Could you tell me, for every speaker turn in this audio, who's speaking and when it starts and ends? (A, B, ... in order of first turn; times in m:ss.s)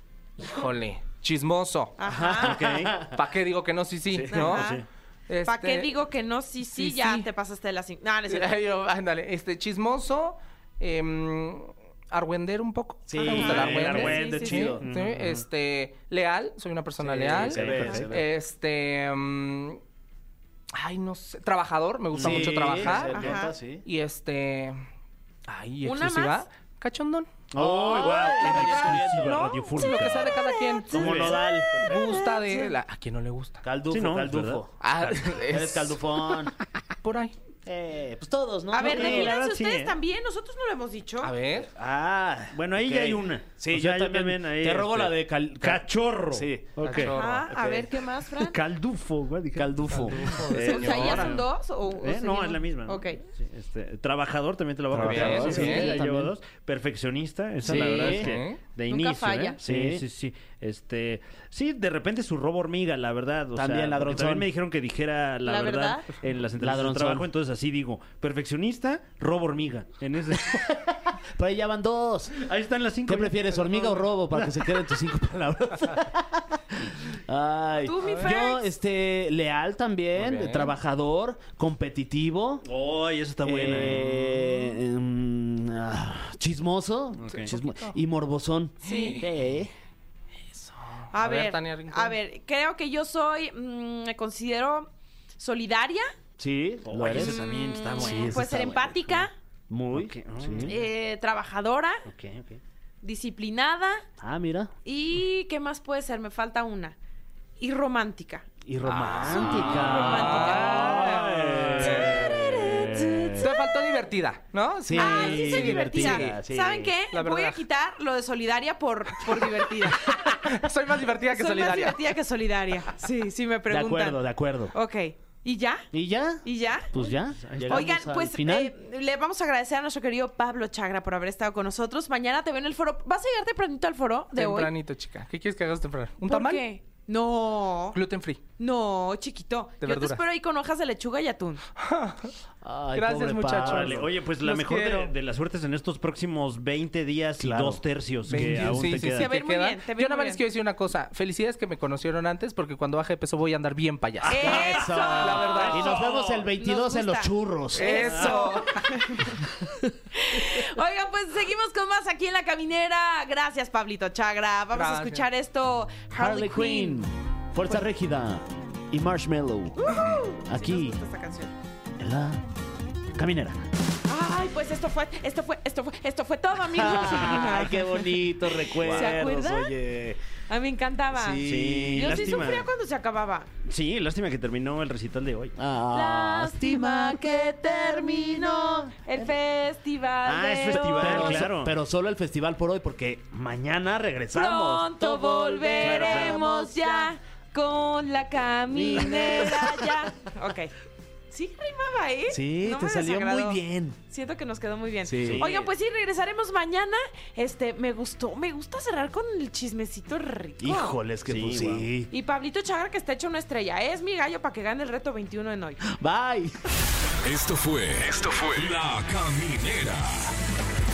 0:00.4-0:02.0 A
0:02.0-0:02.6 B
0:02.0-0:03.2 C
0:02.4-0:03.0 D
0:03.1-0:04.6 A
0:04.2-0:04.6 C
0:04.3-0:04.8 D
0:04.3-0:04.8 B
0:05.3-0:06.0 A
0:05.5-0:08.5 B
0:06.6-0:07.3 A
0:08.3-0:19.8 A
0:13.1-0:14.8 C
0:13.2-0:14.8 B
0:13.3-0:15.4 D
0:17.0-0:18.2 C
0:17.2-0:18.1 D
0:20.7-0:24.9 A
0:22.2-0:23.8 C
0:22.2-0:23.3 D
0:22.8-0:23.5 B
0:25.5-0:27.3 A
0:25.8-0:26.4 B
0:27.5-0:29.7 C
0:27.6-0:30.4 D
0:27.9-0:32.8 B
0:29.7-0:33.6 A
0:30.9-0:31.4 D
0:30.9-0:32.0 C
0:33.6-0:34.7 C
0:33.9-0:34.7 D
0:34.8-0:36.0 A
0:35.4-0:36.5 C
0:37.0-0:37.3 A
0:37.7-0:39.4 C
0:38.7-0:41.3 B
0:38.8-0:40.0 D
0:41.2-0:41.7 A
0:41.7-0:47.9 C
0:42.5-0:47.2 D
0:46.8-0:47.5 A
0:47.1-0:48.6 B
0:48.4-1:10.7 D
0:49.6-0:50.5 C
0:49.9-0:51.4 A
0:50.5-0:53.2 B
0:54.9-0:56.3 C
0:54.9-0:56.0 A
0:57.6-0:58.4 C
0:57.6-0:58.6 A
0:58.9-0:59.6 B
0:59.6-1:00.0 C
1:03.6-1:04.5 C
1:05.4-1:06.2 B
1:06.6-1:07.3 C
1:10.5-1:12.4 C
1:12.4-1:13.6 D
1:13.1-1:22.6 C
1:13.6-1:14.1 A
1:14.4-1:14.7 D
1:17.8-1:18.7 B
1:18.0-1:18.4 A
1:20.2-1:20.7 A
1:22.6-1:24.2 D
1:23.4-1:29.7 C
1:27.2-1:27.5 D
1:27.3-1:28.0 A
1:28.8-1:29.2 B
1:28.8-1:29.3 A
1:30.5-1:32.2 A
1:31.1-1:36.1 B
1:36.4-1:40.8 C
1:36.9-1:38.6 D
1:37.1-1:39.3 B
1:39.9-1:40.8 D
1:40.6-1:42.0 B
1:42.1-1:42.6 D
1:43.0-1:44.0 B
1:44.2-1:44.7 C
1:44.8-1:47.0 B
1:47.6-1:48.5 B
1:48.6-1:53.0 C
1:48.8-1:52.4 A
1:49.3-1:53.4 D
1:49.4-1:54.0 B
1:53.4-1:56.4 A
1:54.8-1:57.0 C
1:55.0-2:00.4 B
1:57.1-1:57.6 A
1:59.2-2:02.2 A
2:01.3-2:04.2 B
2:03.7-2:04.8 C
2:04.7-2:05.9 B
2:05.9-2:08.7 C
2:06.4-2:07.0 B
2:07.4-2:07.9 D
2:07.7-2:14.7 B
2:14.4-2:16.6 A
2:16.3-2:18.0 B
2:17.9-2:18.4 A
2:18.6-2:21.6 B
2:19.8-2:20.2 A
2:21.8-2:22.3 A
2:22.6-2:24.1 C
2:22.9-2:25.1 A
2:23.6-2:29.3 D
2:27.4-2:28.9 C
2:28.3-2:36.0 A
2:29.1-2:30.4 B
2:34.2-2:38.6 C
2:34.3-2:39.4 B
2:37.7-2:39.3 A
2:40.1-2:47.0 B
2:44.7-2:45.3 A
2:46.1-2:51.0 C
2:49.8-2:51.6 B
2:52.0-2:52.4 C
2:53.2-2:53.6 C
2:54.1-2:59.7 B
2:56.7-3:00.2 C
2:58.8-2:59.2 D
3:00.5-3:03.5 B
3:01.1-3:02.4 C
3:01.4-3:02.7 D
3:03.6-3:05.6 D
3:05.6-3:09.3 C
3:05.9-3:11.5 B
3:10.2-3:17.2 C
3:10.6-3:11.7 D
3:14.3-3:20.7 B
3:15.8-3:16.4 D
3:18.7-3:20.0 C
3:21.3-3:23.6 B
3:22.3-3:24.0 C
3:24.1-3:31.0 B
3:25.0-3:25.5 C
3:25.1-3:25.7 D
3:30.6-3:32.1 C
3:31.3-3:31.9 D
3:32.1-3:35.8 B
3:35.9-3:36.5 C
3:37.2-3:40.3 E